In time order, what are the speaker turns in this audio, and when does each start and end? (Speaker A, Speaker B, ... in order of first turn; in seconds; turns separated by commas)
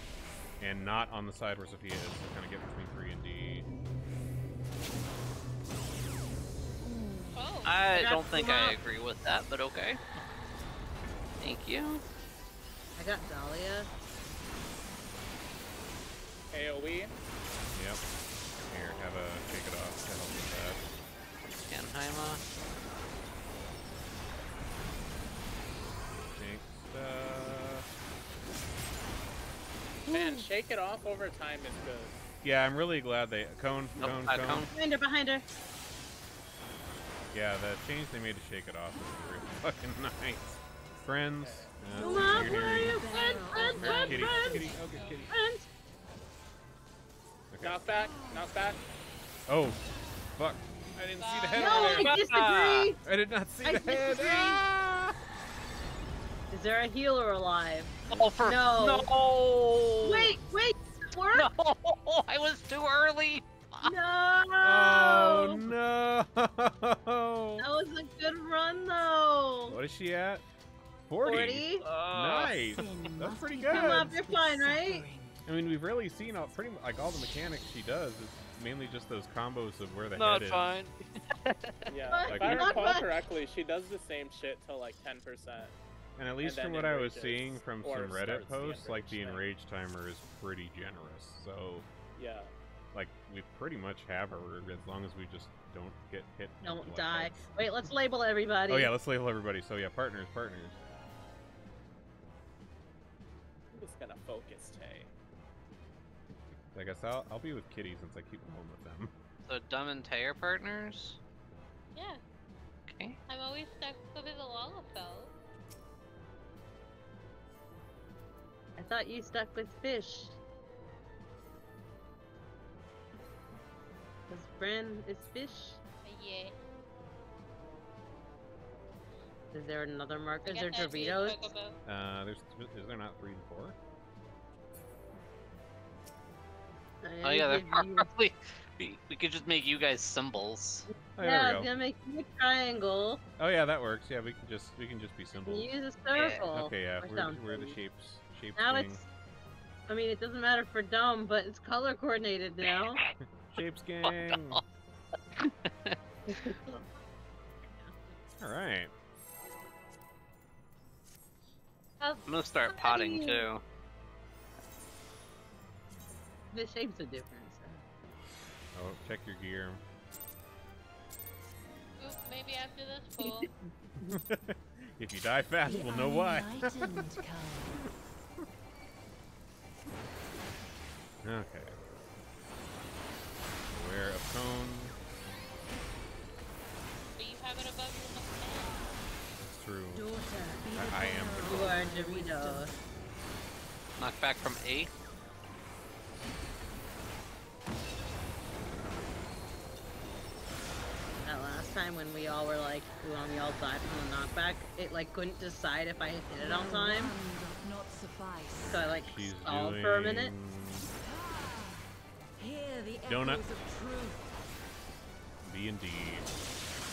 Speaker A: 0.6-3.7, Speaker B: 6.8-7.3, Speaker C: 7.3-7.7, Speaker D: 7.7-10.0, Speaker B: 7.9-8.8, Speaker D: 11.4-12.0, Speaker B: 13.0-13.9, Speaker E: 16.5-17.1, Speaker A: 17.7-18.0, Speaker A: 18.7-20.8, Speaker D: 21.7-22.4, Speaker A: 26.1-27.9, Speaker E: 30.1-32.1, Speaker A: 32.4-34.7, Speaker D: 34.0-34.7, Speaker B: 34.7-35.4, Speaker A: 37.3-43.0, Speaker E: 41.4-41.8, Speaker F: 41.9-44.8, Speaker B: 42.0-44.6, Speaker C: 43.6-45.3, Speaker A: 44.0-45.3, Speaker B: 45.3-45.7, Speaker A: 47.5-47.9, Speaker E: 47.6-48.8, Speaker A: 49.5-49.8, Speaker A: 50.4-52.2, Speaker C: 51.2-52.0, Speaker B: 51.5-53.0, Speaker D: 52.0-52.9, Speaker A: 53.0-55.2, Speaker B: 53.6-54.6, Speaker B: 56.5-57.9, Speaker D: 58.1-60.4, Speaker B: 58.4-59.1, Speaker B: 60.0-61.5, Speaker D: 61.3-63.9, Speaker B: 63.8-65.6, Speaker A: 64.6-67.7, Speaker B: 67.6-69.8, Speaker A: 69.7-70.4, Speaker A: 71.1-74.1, Speaker B: 71.2-71.8, Speaker D: 71.8-72.8, Speaker F: 72.8-75.4, Speaker B: 73.7-75.0, Speaker A: 75.5-80.8, Speaker D: 80.2-82.0, Speaker E: 81.9-85.7, Speaker B: 82.1-83.1, Speaker A: 82.3-83.0, Speaker A: 86.2-91.9, Speaker E: 86.4-89.4, Speaker E: 92.2-92.5, Speaker A: 92.9-97.4, Speaker B: 96.6-98.9, Speaker A: 98.7-100.8, Speaker E: 103.7-105.1, Speaker A: 106.8-109.1, Speaker D: 109.5-111.2, Speaker C: 112.0-112.2, Speaker D: 112.9-113.2, Speaker C: 113.3-115.3, Speaker B: 118.8-120.4, Speaker B: 124.3-125.8, Speaker C: 126.0-126.6, Speaker B: 129.5-131.5, Speaker C: 130.5-131.8, Speaker A: 131.9-133.8, Speaker B: 137.0-138.1, Speaker D: 137.2-140.9, Speaker A: 141.2-141.7, Speaker B: 141.2-143.2, Speaker A: 143.4-145.7, Speaker B: 145.5-147.8, Speaker D: 146.1-146.4, Speaker A: 146.5-149.0, Speaker B: 148.6-149.1, Speaker B: 149.9-153.0, Speaker A: 153.2-154.6, Speaker D: 154.1-154.6, Speaker D: 155.4-156.0, Speaker B: 156.3-156.8, Speaker A: 158.4-158.9, Speaker B: 162.0-163.5, Speaker D: 162.3-163.6, Speaker B: 166.5-167.8, Speaker A: 168.7-169.8, Speaker C: 172.0-173.5, Speaker A: 174.1-177.1, Speaker F: 175.7-177.8, Speaker A: 177.8-178.4, Speaker A: 181.2-181.8, Speaker A: 183.7-184.9, Speaker C: 187.2-188.8, Speaker A: 189.5-190.1, Speaker F: 189.9-192.7, Speaker A: 190.7-191.8, Speaker B: 191.4-192.7, Speaker D: 194.0-194.9, Speaker B: 201.2-207.2, Speaker F: 206.4-208.8, Speaker A: 208.6-210.9, Speaker B: 208.7-210.3, Speaker F: 211.1-211.8, Speaker F: 212.4-214.3, Speaker A: 213.1-213.4, Speaker A: 215.4-216.3